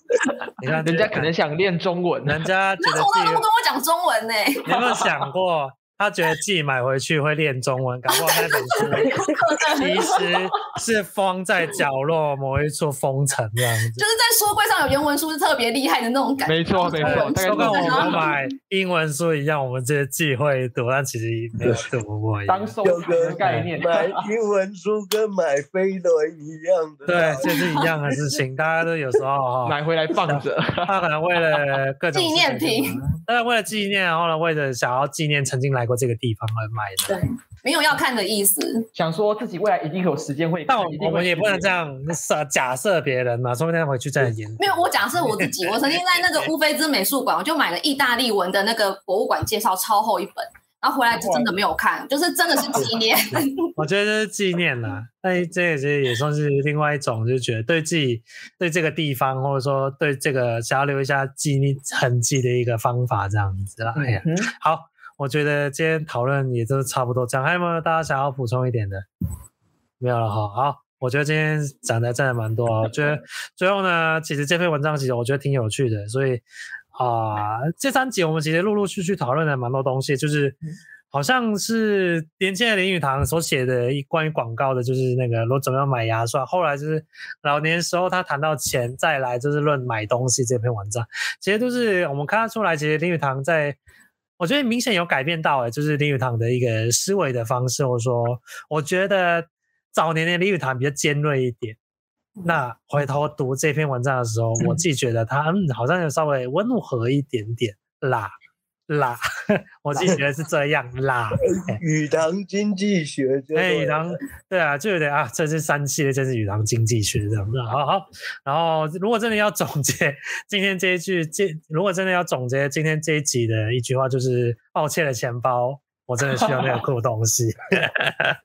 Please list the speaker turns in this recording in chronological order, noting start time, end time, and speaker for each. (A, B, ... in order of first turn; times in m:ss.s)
0:00.6-0:01.3 A
0:00.8-0:02.4 B
0:02.3-0:03.4 A
0:02.8-0:04.7 C
0:04.7-0:14.0 A
0:04.7-0:05.2 B
0:08.1-0:10.0 C
0:14.0-0:18.4 C
0:16.5-0:18.3 B
0:17.0-0:22.8 A
0:22.5-0:24.2 B
0:22.8-0:27.9 D
0:23.4-0:23.7 A
0:27.1-0:37.2 A
0:27.5-0:27.9 C
0:29.6-0:31.0 B
0:32.1-0:33.0 C
0:37.1-0:38.9 C
0:39.0-0:41.7 B
0:40.7-0:46.0 A
0:44.6-0:53.7 C
0:51.1-0:51.5 B
0:52.8-1:09.0 A
1:04.0-1:04.5 B
1:10.0-1:16.4 A
1:16.9-1:20.6 A
1:21.1-1:33.8 A
1:34.4-1:41.8 A
1:42.4-1:48.3 A
1:48.9-1:51.8 A
1:51.4-1:54.2 D
1:53.6-2:08.4 A
2:06.3-2:06.8 B